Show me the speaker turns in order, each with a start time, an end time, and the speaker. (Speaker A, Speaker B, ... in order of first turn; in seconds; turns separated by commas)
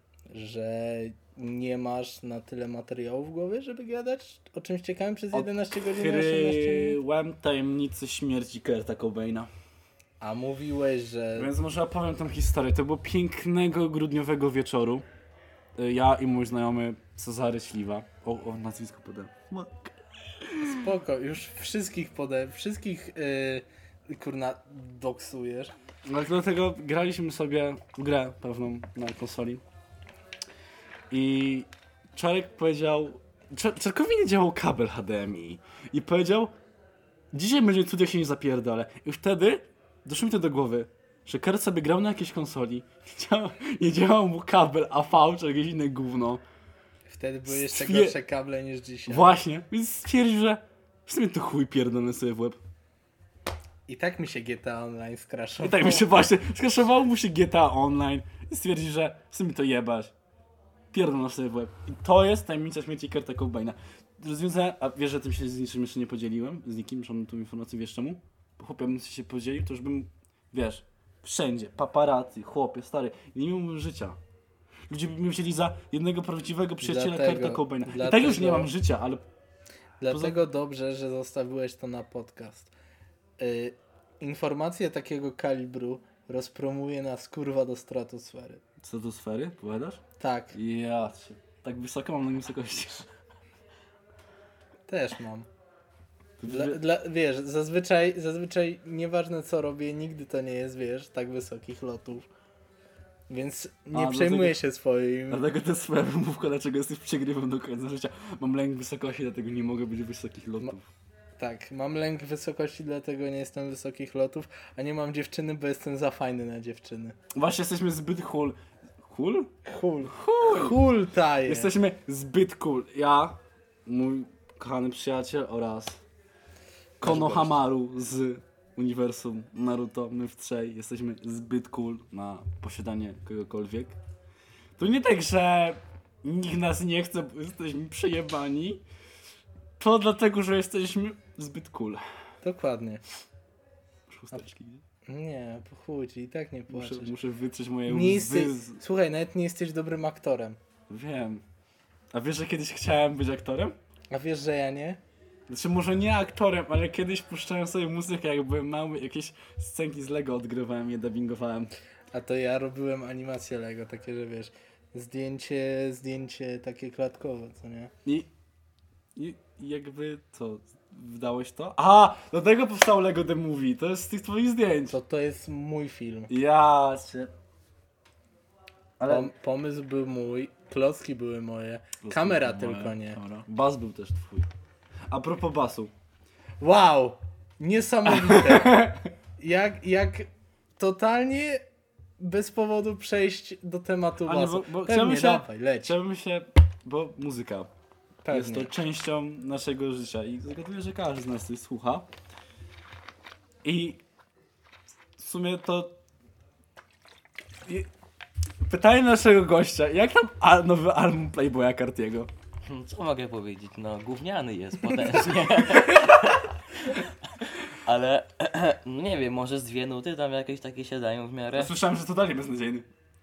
Speaker A: 0.3-7.0, Speaker B: 5.3-9.5, Speaker A: 10.2-11.5, Speaker B: 11.3-15.1, Speaker B: 15.8-20.9, Speaker A: 20.6-25.7, Speaker B: 26.1-29.6, Speaker B: 31.1-36.5, Speaker B: 37.3-46.4, Speaker A: 47.1-49.4, Speaker B: 47.5-48.2, Speaker B: 49.1-52.6, Speaker A: 53.9-56.1, Speaker B: 55.6-60.1, Speaker B: 60.9-74.2, Speaker B: 74.9-79.3, Speaker A: 76.8-78.7, Speaker A: 80.0-82.7, Speaker B: 80.1-80.4, Speaker A: 83.4-88.6, Speaker B: 88.8-93.1, Speaker A: 90.2-90.6, Speaker A: 94.9-95.5, Speaker B: 96.4-96.8, Speaker A: 96.5-102.3, Speaker A: 103.3-105.4, Speaker B: 103.9-104.6, Speaker B: 105.3-110.9, Speaker A: 111.4-117.2, Speaker B: 117.3-119.5, Speaker A: 119.7-121.7, Speaker B: 120.0-120.8, Speaker B: 121.4-126.0, Speaker B: 127.0-134.0, Speaker A: 127.0-127.6, Speaker B: 134.8-138.8, Speaker B: 139.8-142.0, Speaker A: 142.4-143.0, Speaker B: 144.1-144.8, Speaker A: 145.1-147.1, Speaker B: 146.7-148.8, Speaker A: 147.9-150.6, Speaker B: 150.9-151.4, Speaker B: 152.1-153.8, Speaker A: 154.1-155.0, Speaker B: 155.5-161.7, Speaker A: 162.1-167.9, Speaker B: 168.1-168.3, Speaker B: 169.2-175.0, Speaker A: 174.9-176.3, Speaker B: 176.3-177.3, Speaker B: 179.0-179.3, Speaker A: 179.1-183.2, Speaker B: 182.0-184.5, Speaker B: 185.1-185.9, Speaker A: 186.6-191.6, Speaker B: 188.1-189.1, Speaker A: 192.2-195.9, Speaker B: 194.2-197.7, Speaker A: 198.2-198.7, Speaker B: 198.3-202.1, Speaker B: 203.6-204.0, Speaker B: 205.2-206.0, Speaker B: 208.6-212.3, Speaker C: 212.7-221.7, Speaker B: 215.1-216.4, Speaker B: 221.5-222.9